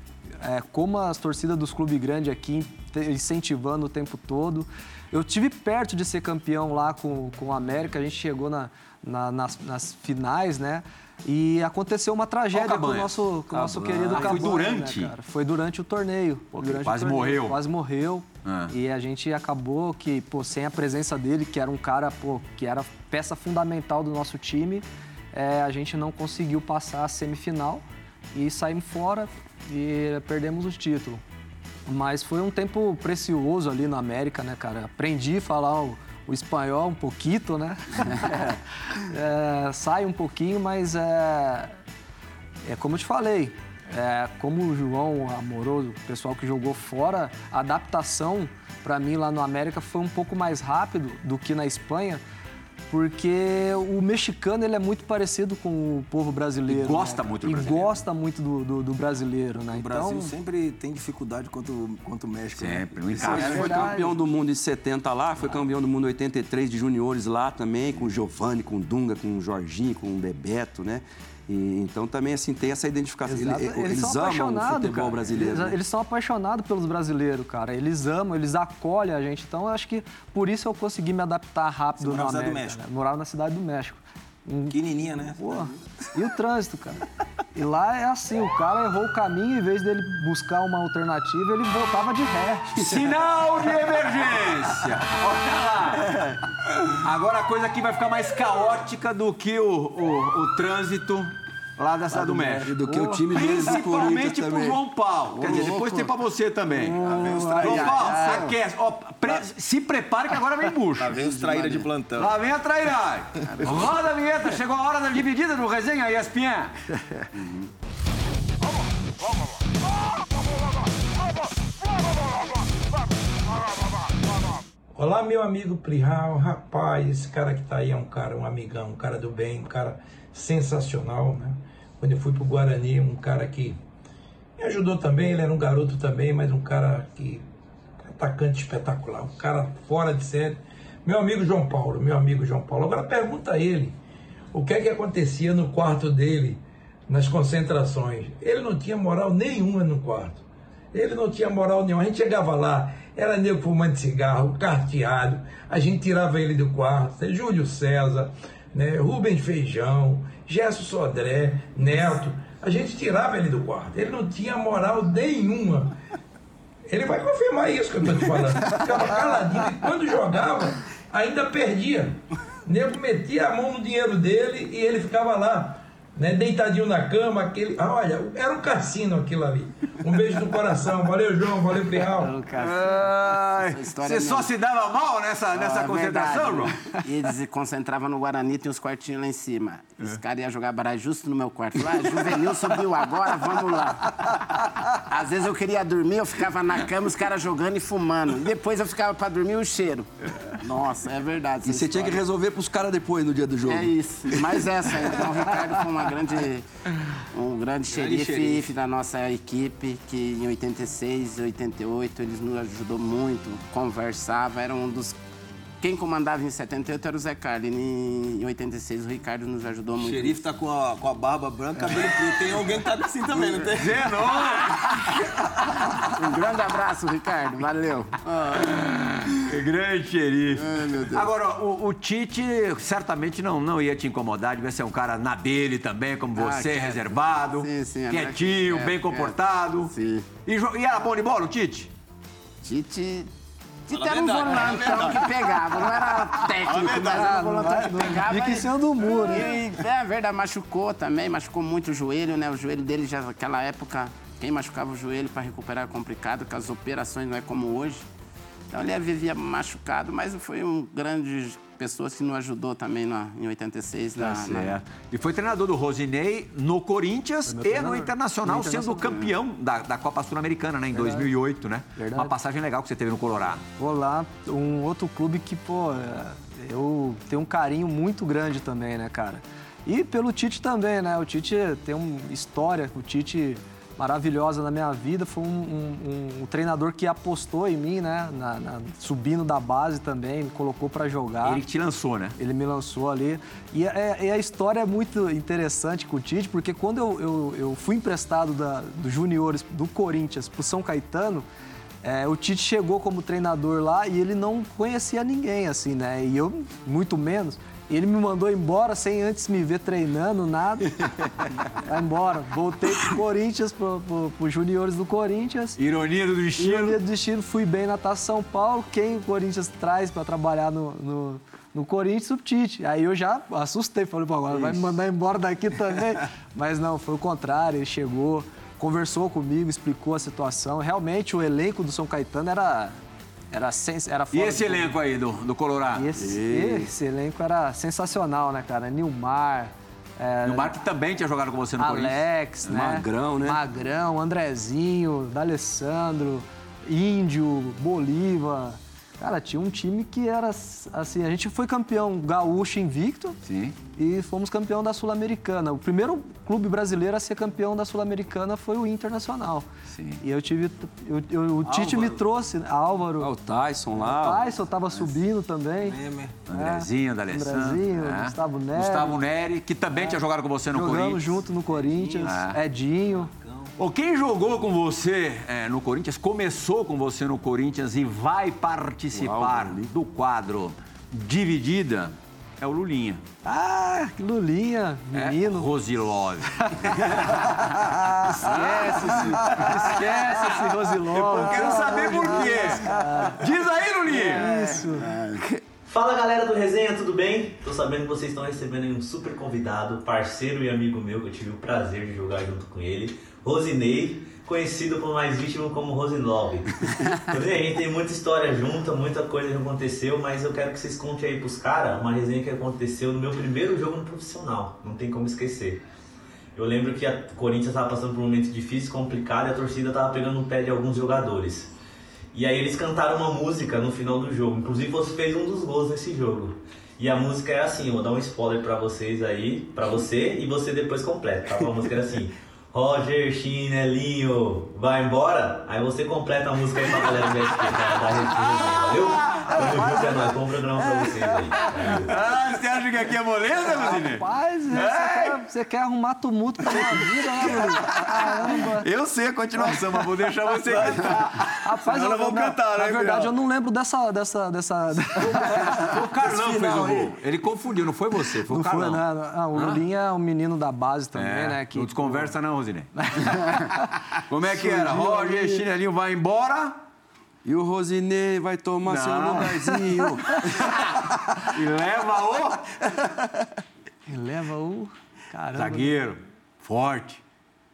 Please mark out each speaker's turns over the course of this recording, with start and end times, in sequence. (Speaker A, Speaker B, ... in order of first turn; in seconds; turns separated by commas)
Speaker A: 0.4-27.8, Speaker B: 12.5-15.1, Speaker C: 14.0-14.5, Speaker B: 16.5-17.6, Speaker B: 18.4-18.7, Speaker A: 28.3-31.2, Speaker A: 31.9-41.8, Speaker A: 42.7-52.2, Speaker A: 52.9-60.3, Speaker B: 56.7-58.0, Speaker D: 59.7-63.7, Speaker B: 62.6-63.9, Speaker C: 63.2-75.8, Speaker A: 63.2-64.1, Speaker A: 73.2-87.0, Speaker D: 82.0-82.8, Speaker D: 84.7-85.7, Speaker A: 87.5-93.0, Speaker B: 92.8-96.1, Speaker C: 96.0-96.4, Speaker B: 96.9-107.0, Speaker A: 102.1-103.2, Speaker C: 102.5-104.8, Speaker E: 105.3-106.1, Speaker A: 106.8-108.5, Speaker E: 106.8-108.6, Speaker D: 107.0-108.3, Speaker B: 107.6-111.2, Speaker D: 111.0-112.3, Speaker E: 111.2-111.9, Speaker B: 112.2-116.9, Speaker E: 117.4-117.7, Speaker F: 125.0-133.8, Speaker F: 134.6-137.5, Speaker F: 138.0-144.0, Speaker F: 144.5-166.0, Speaker F: 166.9-182.3, Speaker A: 182.2-183.1, Speaker B: 182.6-186.8, Speaker E: 183.6-184.5, Speaker E: 185.5-202.2, Speaker C: 201.6-204.8, Speaker E: 203.7-206.7, Speaker E: 207.3-215.2, Speaker D: 207.9-208.7, Speaker E: 215.8-220.4, Speaker D: 219.9-224.1, Speaker B: 223.6-225.8, Speaker E: 226.1-228.9, Speaker B: 229.3-239.9, Speaker E: 230.5-231.3, Speaker E: 236.4-240.3, Speaker B: 240.5-241.9, Speaker E: 242.6-243.3, Speaker E: 243.9-258.1, Speaker D: 243.9-247.4, Speaker A: 246.9-249.6, Speaker E: 258.7-264.8, Speaker B: 264.2-273.6, Speaker A: 267.5-269.2, Speaker A: 270.9-271.3, Speaker A: 272.0-272.3, Speaker A: 273.8-291.6, Speaker B: 291.4-292.4, Speaker A: 292.4-301.4, Speaker A: 302.0-311.1, Speaker A: 311.8-315.8, Speaker B: 315.8-317.0, Speaker A: 316.6-333.0, Speaker A: 333.5-334.9, Speaker B: 334.3-336.1, Speaker A: 335.9-340.8, Speaker C: 336.2-336.9, Speaker B: 340.4-342.2, Speaker A: 341.8-353.4, Speaker C: 342.7-343.6, Speaker B: 353.4-353.8, Speaker A: 354.0-359.7, Speaker B: 359.9-360.2, Speaker A: 360.2-363.3, Speaker D: 361.6-362.2, Speaker C: 363.2-364.5, Speaker A: 364.0-369.2, Speaker D: 365.8-366.4, Speaker B: 366.5-371.4, Speaker A: 370.7-373.3, Speaker D: 371.7-372.4, Speaker B: 372.2-372.6, Speaker D: 373.2-373.7, Speaker B: 373.8-383.2, Speaker C: 379.1-379.9, Speaker A: 383.4-385.7, Speaker B: 385.1-394.5, Speaker A: 386.6-387.6, Speaker A: 388.2-393.5, Speaker A: 394.1-395.1, Speaker E: 394.1-395.5, Speaker G: 395.9-415.8, Speaker G: 416.6-421.7, Speaker G: 422.3-442.2, Speaker B: 437.0-440.1, Speaker A: 439.6-440.3, Speaker B: 441.0-445.4, Speaker A: 441.6-441.9, Speaker A: 443.6-448.9, Speaker B: 446.7-453.3, Speaker A: 449.6-449.9, Speaker A: 451.6-455.9, Speaker B: 455.2-459.8, Speaker C: 456.2-457.2, Speaker A: 458.5-462.3, Speaker B: 461.1-463.5, Speaker A: 463.0-465.7, Speaker B: 464.2-466.8, Speaker C: 467.4-470.7, Speaker B: 468.9-469.8, Speaker B: 470.5-472.7, Speaker A: 474.1-476.0, Speaker B: 475.5-477.2